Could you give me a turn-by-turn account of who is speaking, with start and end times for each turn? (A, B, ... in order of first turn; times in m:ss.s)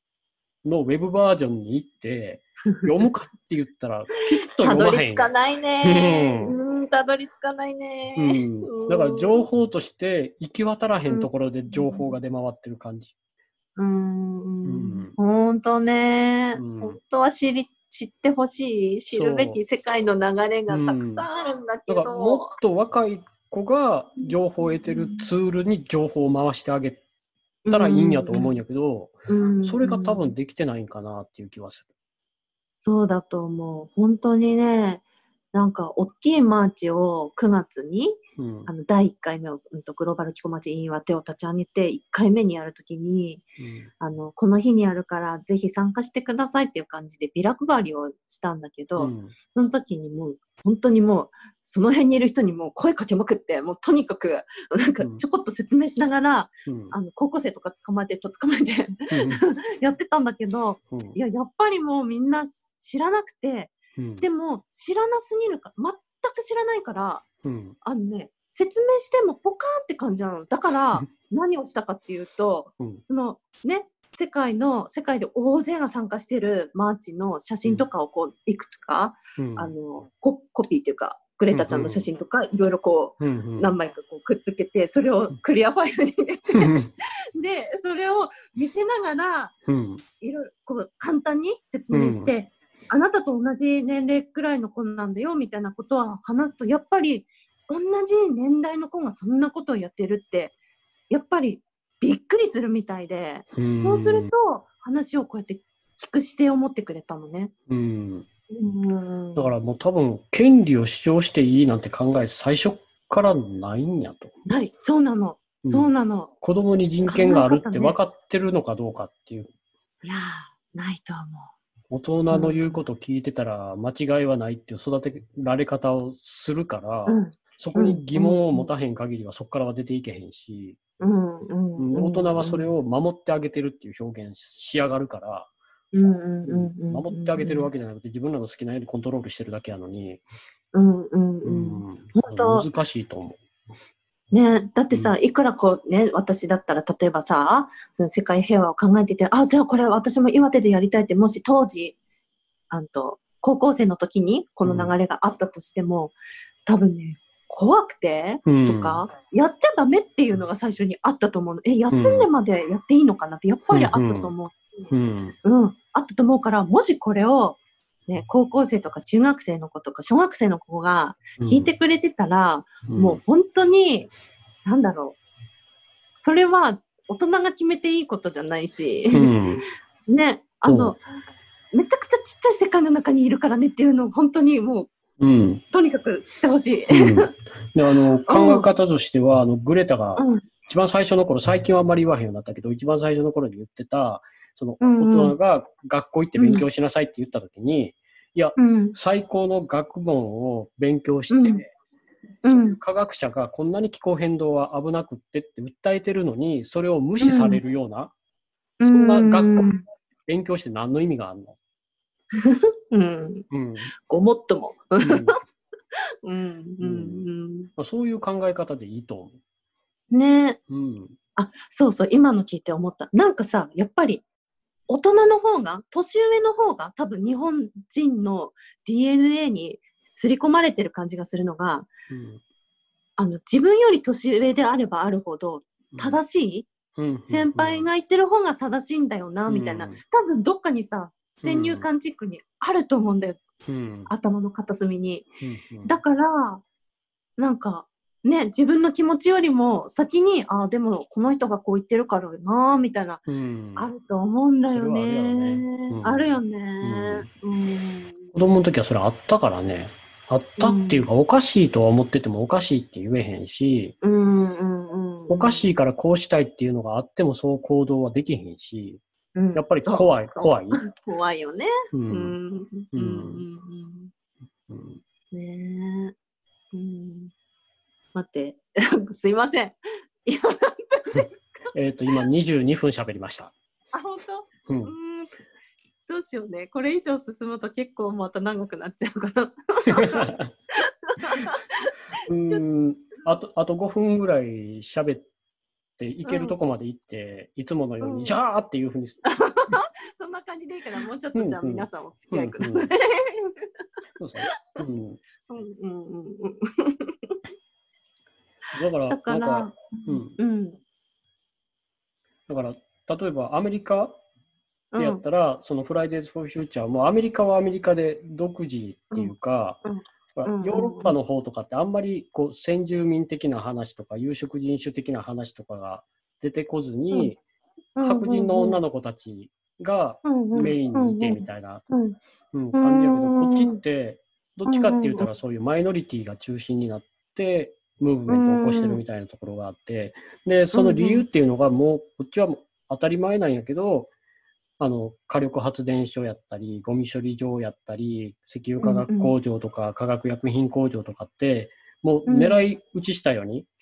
0:00.6-0:06.6 A
0:04.6-0:09.5 B
0:08.2-0:13.1 A
0:11.1-0:12.1 B
0:13.8-0:22.6 B
0:14.6-0:15.2 A
0:16.6-0:17.0 A
0:19.1-0:19.6 A
0:20.7-0:21.3 A
0:21.9-0:27.0 A
0:24.2-0:25.3 B
0:27.6-0:28.5 B
0:27.7-0:31.9 A
0:29.3-0:30.3 B
0:32.8-0:43.4 B
0:38.4-0:38.7 A
0:43.6-0:43.9 A
0:44.0-1:07.2 B
0:49.0-0:49.3 A
0:56.7-0:57.0 A
0:59.1-0:59.4 A
1:00.9-1:01.2 A
1:04.0-1:04.2 A
1:07.4-1:07.8 A
1:07.8-1:26.8 B
1:19.4-1:19.7 A
1:21.5-1:22.1 A
1:23.2-1:23.7 A
1:26.5-1:26.9 A
1:27.4-1:29.5 B
1:29.7-1:30.0 A
1:30.2-1:40.6 B
1:31.9-1:32.3 A
1:41.1-1:47.5 B
1:43.6-1:44.3 A
1:47.7-1:48.3 A
1:48.5-1:49.5 B
1:49.4-1:54.3 A
1:54.5-1:56.3 B
1:55.6-1:55.9 A
1:56.4-1:59.5 A
1:57.0-1:58.0 B
2:00.0-2:01.5 B
2:01.9-2:10.8 A
2:02.3-2:02.8 B
2:07.1-2:08.7 B
2:11.0-2:12.7 B
2:11.8-2:15.5 A
2:15.9-2:17.7 B
2:16.4-2:20.2 A
2:20.7-2:22.7 B
2:21.4-2:23.4 A
2:24.3-2:32.0 B
2:32.7-2:44.9 B
2:34.6-2:34.9 A
2:38.4-2:39.0 A
2:41.9-2:42.3 A
2:43.7-2:44.3 A
2:44.9-2:45.4 A
2:45.4-2:54.1 B
2:51.4-2:51.7 A
2:52.9-2:53.2 A
2:54.6-2:55.2 B
2:56.2-2:59.3 B
2:59.1-2:59.6 A
3:00.1-3:01.0 B
3:00.7-3:01.0 A
3:01.7-3:04.9 B
3:05.2-3:05.6 A
3:05.7-3:07.3 B
3:06.9-3:21.7 A
3:08.3-3:08.7 B
3:10.2-3:10.4 B
3:14.8-3:15.4 B
3:16.4-3:16.6 B
3:18.6-3:19.0 B
3:21.3-3:21.6 B
3:22.4-3:28.1 A
3:22.4-3:22.8 B
3:27.2-3:27.6 B
3:28.8-3:29.8 B
3:28.9-3:29.7 A
3:30.3-3:31.6 A
3:32.4-3:33.5 B
3:33.5-3:33.9 A
3:34.0-3:35.3 B
3:35.0-3:35.4 A
3:36.2-3:37.7 B
3:36.8-3:37.2 A
3:37.8-3:39.4 A
3:40.1-3:40.6 B
3:40.7-3:41.2 A
3:41.4-3:44.2 B
3:44.9-3:51.9 B
3:52.1-3:52.4 A
3:53.2-3:56.7 B
3:55.9-3:56.2 A
3:57.0-3:57.9 A
3:57.3-4:03.4 B
3:59.5-4:00.0 A
4:01.4-4:01.9 A
4:03.7-4:04.1 A
4:04.1-4:05.3 B
4:05.4-4:06.0 A
4:05.8-4:06.6 B
4:07.4-4:13.2 B
4:13.3-4:13.9 A
4:13.8-4:18.3 B
4:14.7-4:17.3 A
4:18.3-4:24.0 A
4:20.6-4:21.0 B
4:24.0-4:25.7 B
4:25.3-4:29.0 A
4:29.4-4:34.1 B
4:29.5-4:30.8 A
4:31.9-4:32.4 A
4:32.9-4:33.4 A
4:34.7-4:35.0 A
4:35.3-4:36.1 B
4:36.7-4:37.3 B
4:38.2-4:41.7 B
4:41.7-4:43.5 A
4:43.9-4:45.3 B
4:44.7-4:44.9 A
4:46.1-4:52.6 B
4:49.9-4:50.5 A
4:52.3-4:55.3 A
4:56.0-4:59.3 A
4:56.2-4:56.6 B
4:58.0-4:58.4 B
4:59.3-5:03.7 B
5:01.3-5:02.9 A
5:04.2-5:05.2 A
5:05.5-5:07.4 B
5:08.7-5:10.4 A
5:09.1-5:10.8 B
5:12.5-5:14.2 A
5:14.9-5:15.2 B
5:15.0-5:19.8 A
5:19.8-5:21.2 B
5:20.4-5:27.4 A
5:28.0-5:28.8 B
5:28.0-5:31.9 A
5:30.2-5:32.2 B
5:32.5-5:44.1 A
5:32.7-5:33.8 B
5:34.7-5:35.3 B
5:38.3-5:39.0 B
5:40.7-5:41.2 B
5:44.8-5:53.7 A
5:48.8-5:49.3 B
5:52.3-5:52.7 B